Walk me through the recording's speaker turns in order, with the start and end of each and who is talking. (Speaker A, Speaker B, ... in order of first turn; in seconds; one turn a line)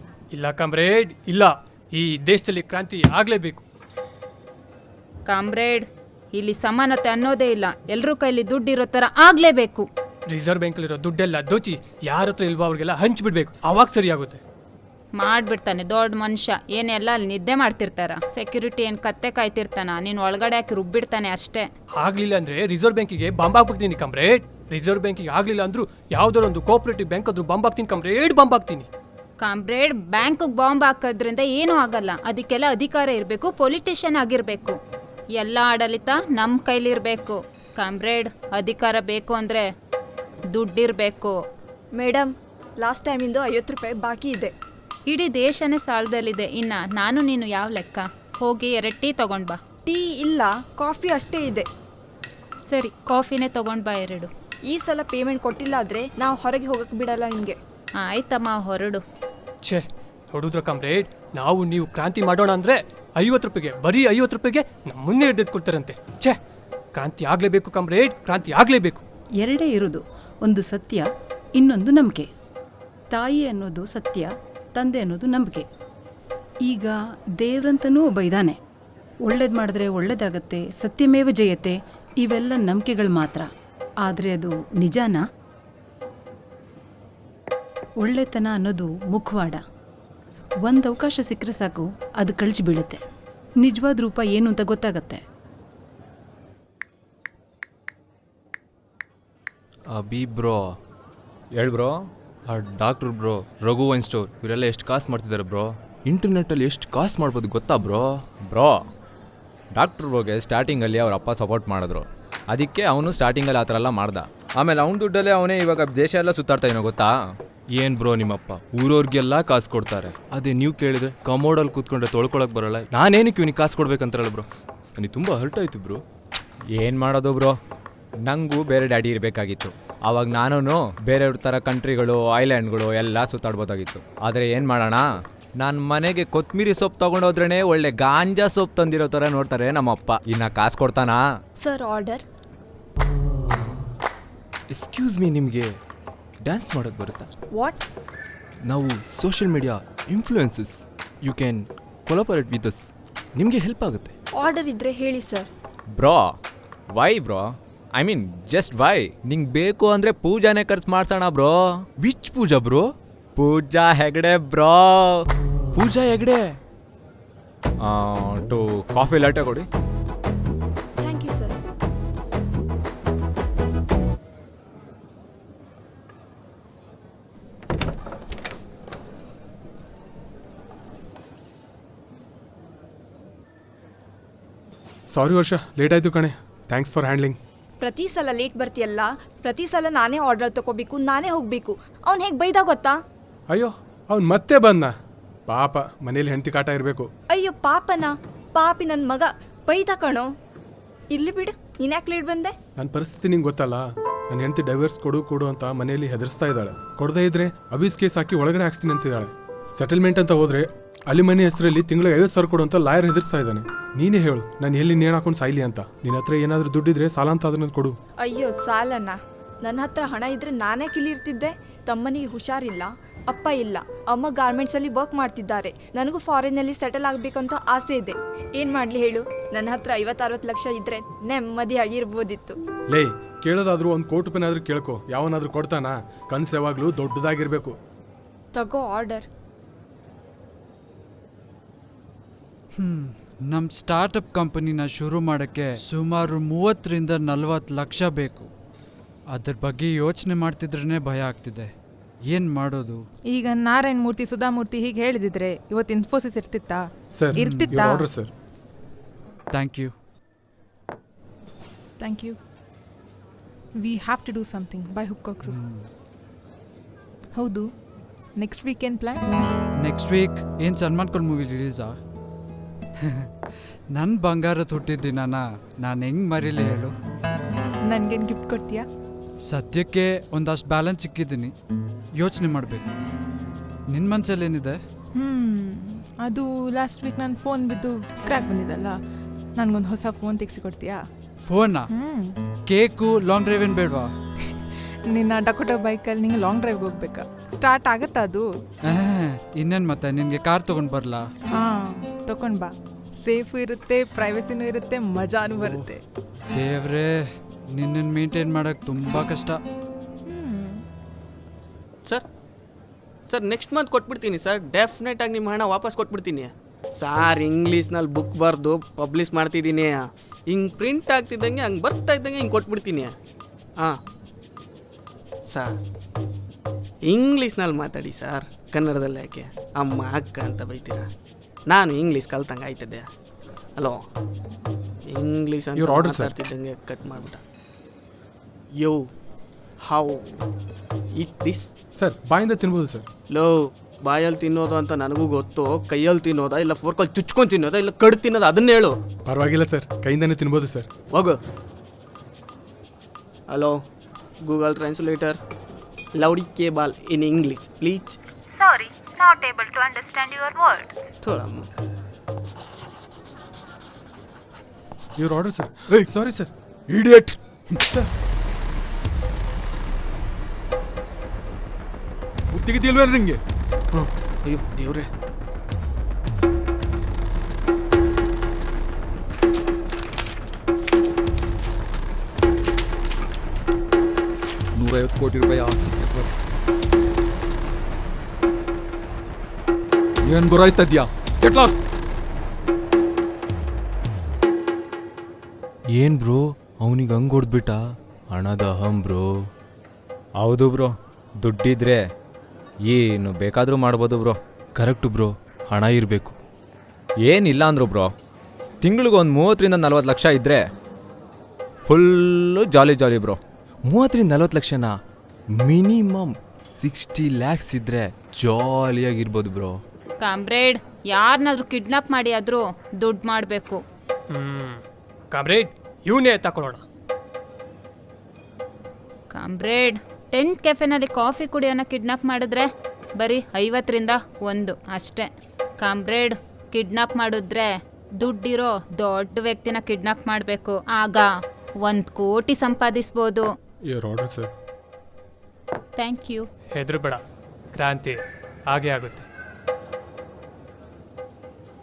Speaker A: 0.3-3.6
Speaker B: 5.3-9.8
Speaker A: 10.3-14.4
Speaker B: 15.2-21.7
Speaker A: 22.0-28.9
Speaker B: 29.4-34.8
Speaker B: 35.4-39.7
Speaker B: 40.5-41.3
Speaker C: 42.0-44.5
Speaker B: 45.1-49.6
Speaker C: 49.9-51.7
Speaker B: 52.7-54.3
Speaker C: 54.7-57.6
Speaker B: 58.0-59.0
Speaker A: 59.6-66.4
Speaker A: 66.9-69.0
Speaker D: 69.4-72.3
Speaker D: 73.1-75.6
Speaker D: 76.6-78.6
Speaker D: 79.2-83.5
Speaker D: 84.0-85.2
Speaker D: 88.0-89.6
Speaker D: 90.6-93.0
Speaker D: 93.6-95.2
Speaker E: 99.9-100.8
Speaker F: 101.6-102.0
Speaker E: 102.5-108.2
Speaker F: 108.5-108.8
Speaker F: 109.7-117.1
Speaker E: 117.8-124.4
Speaker E: 125.0-126.0
Speaker F: 126.8-127.5
Speaker F: 128.2-135.0
Speaker F: 135.6-141.2
Speaker C: 141.6-142.2
Speaker E: 144.7-145.8
Speaker E: 146.4-147.3
Speaker C: 147.6-147.8
Speaker E: 148.7-154.1
Speaker C: 154.4-155.5
Speaker F: 155.9-156.3
Speaker F: 156.9-161.7
Speaker E: 162.0-162.9
Speaker F: 163.4-165.2
Speaker E: 165.7-166.6
Speaker F: 167.8-169.7
Speaker C: 171.0-171.6
Speaker G: 185.1-187.4
Speaker C: 187.8-193.0
Speaker G: 193.5-194.9
Speaker G: 195.5-197.1
Speaker C: 197.3-200.3
Speaker C: 201.1-202.6
Speaker G: 202.8-217.9
Speaker C: 218.2-232.6
Speaker G: 232.9-237.8
Speaker C: 238.5-239.3
Speaker H: 242.8-248.5
Speaker H: 249.3-251.7
Speaker H: 252.3-253.0
Speaker I: 253.3-258.1
Speaker G: 257.1-258.3
Speaker H: 257.4-257.7
Speaker H: 259.5-259.9
Speaker I: 262.0-262.4
Speaker I: 263.8-265.6
Speaker H: 265.4-265.9
Speaker I: 267.4-267.7
Speaker I: 268.4-269.2
Speaker H: 269.8-272.0
Speaker H: 273.0-273.3
Speaker H: 273.9-276.9
Speaker I: 277.9-278.9
Speaker H: 279.4-281.5
Speaker H: 282.2-282.9
Speaker H: 283.9-284.8
Speaker I: 285.1-289.0
Speaker I: 289.6-291.0
Speaker H: 291.4-291.9
Speaker I: 291.9-292.3
Speaker H: 292.7-294.1
Speaker I: 295.1-298.5
Speaker H: 298.9-301.3
Speaker I: 301.5-306.0
Speaker H: 306.5-309.6
Speaker I: 310.2-310.8
Speaker J: 313.3-323.1
Speaker J: 327.1-331.1
Speaker J: 331.7-333.1
Speaker J: 335.1-337.4
Speaker G: 335.8-336.3
Speaker J: 338.8-339.0
Speaker J: 339.8-340.4
Speaker J: 341.2-341.7
Speaker G: 342.0-343.1
Speaker J: 343.3-348.9
Speaker G: 349.2-350.9
Speaker J: 353.5-353.8
Speaker J: 354.4-355.4
Speaker J: 356.2-358.2
Speaker B: 358.5-360.9
Speaker J: 361.2-361.7
Speaker G: 365.2-366.5
Speaker K: 366.9-367.4
Speaker K: 372.5-373.4
Speaker J: 373.9-375.1
Speaker K: 384.8-386.3
Speaker K: 390.2-391.8
Speaker E: 395.9-397.8
Speaker E: 398.3-399.3
Speaker F: 400.4-402.0
Speaker F: 402.9-404.4
Speaker E: 404.8-406.4
Speaker F: 407.2-408.1
Speaker F: 408.8-410.6
Speaker F: 411.9-413.4
Speaker E: 413.9-414.9
Speaker E: 415.6-419.8
Speaker B: 420.2-423.8
Speaker A: 424.3-426.8
Speaker B: 429.3-435.3
Speaker B: 435.8-441.3
Speaker B: 441.8-443.4
Speaker G: 443.9-444.5
Speaker B: 446.0-446.4
Speaker A: 446.7-447.2
Speaker A: 447.8-449.2